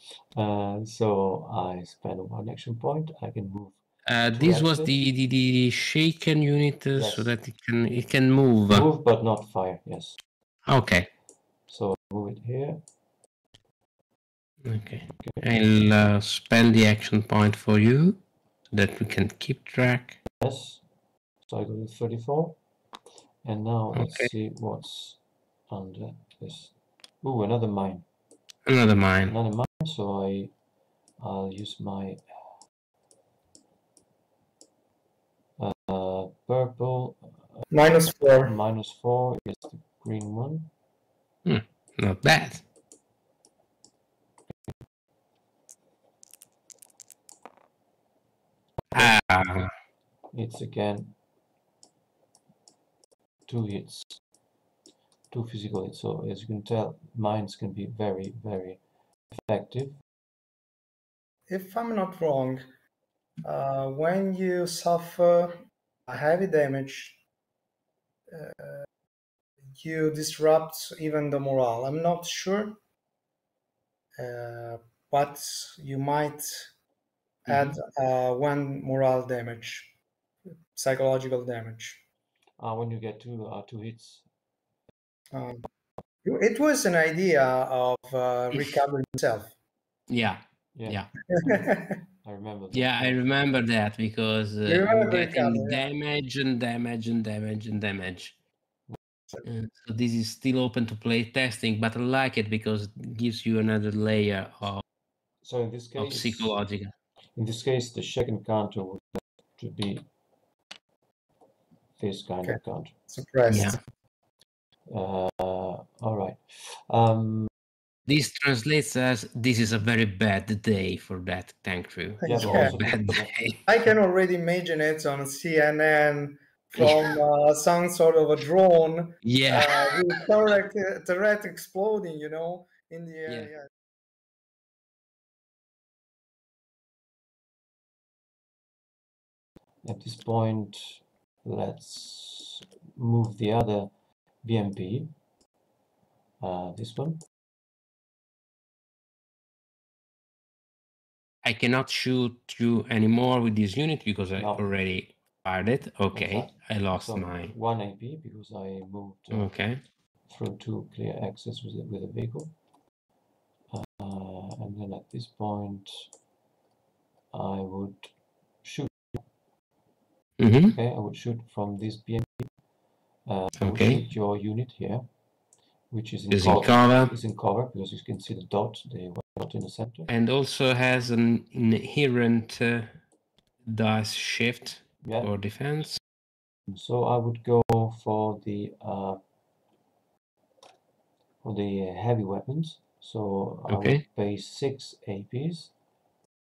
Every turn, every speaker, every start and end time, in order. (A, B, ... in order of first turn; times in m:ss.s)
0:00.3-0:03.8 A
0:04.0-0:08.8 B
0:04.3-0:04.9 A
0:06.9-0:07.3 A
0:08.7-0:10.2 A
0:10.7-0:11.1 B
0:11.7-0:12.8 A
0:14.6-0:18.2 B
0:15.2-0:15.5 A
0:18.7-0:20.2 B
0:20.4-0:20.8 A
0:21.4-0:22.6 A
0:23.4-0:28.0 A
0:23.9-0:24.3 B
0:28.7-0:29.3 B
0:29.3-0:30.5 A
0:31.2-0:32.2 A
0:35.6-0:37.7 A
0:37.7-0:38.5 C
0:38.4-0:40.7 A
0:41.4-0:42.6 B
0:48.9-0:49.7 B
0:50.3-0:51.1 A
0:53.5-0:54.2 A
0:55.3-1:00.0 A
1:01.5-1:02.7 C
1:03.4-1:07.2 C
1:08.3-1:08.9 C
1:09.7-1:12.8 C
1:14.2-1:16.7 C
1:17.4-1:19.9 C
1:17.5-1:17.8 B
1:20.7-1:22.0 C
1:22.6-1:24.2 A
1:25.3-1:25.7 C
1:26.2-1:29.5 C
1:30.1-1:31.1 B
1:30.7-1:31.0 A
1:31.3-1:32.0 C
1:32.2-1:33.3 A
1:32.7-1:38.3 B
1:34.6-1:35.8 C
1:39.4-1:44.8 B
1:45.4-1:46.6 A
1:46.0-1:46.9 B
1:47.4-1:50.1 A
1:52.0-1:52.9 A
1:52.4-1:53.8 C
1:53.5-1:53.8 B
1:54.9-1:57.5 A
1:58.1-2:03.6 B
2:02.2-2:02.8 C
2:02.2-2:03.3 A
2:03.7-2:13.7 C
2:06.8-2:07.1 B
2:09.2-2:10.2 B
2:19.8-2:23.9 A
2:24.4-2:25.1 A
2:26.4-2:27.2 A
2:31.4-2:37.5 B
2:34.4-2:34.7 A
2:36.1-2:39.5 A
2:39.3-2:39.8 B
2:40.3-2:42.5 A
2:43.7-2:46.1 A
2:47.3-2:49.2 A
2:50.4-2:50.8 B
2:50.6-2:52.5 A
2:53.2-2:55.0 A
2:53.6-2:54.0 B
2:55.9-3:00.1 A
2:56.3-2:57.1 B
3:00.1-3:03.0 B
3:03.6-3:06.0 B
3:05.0-3:05.3 A
3:06.7-3:09.2 A
3:11.4-3:15.7 A
3:13.7-3:14.0 B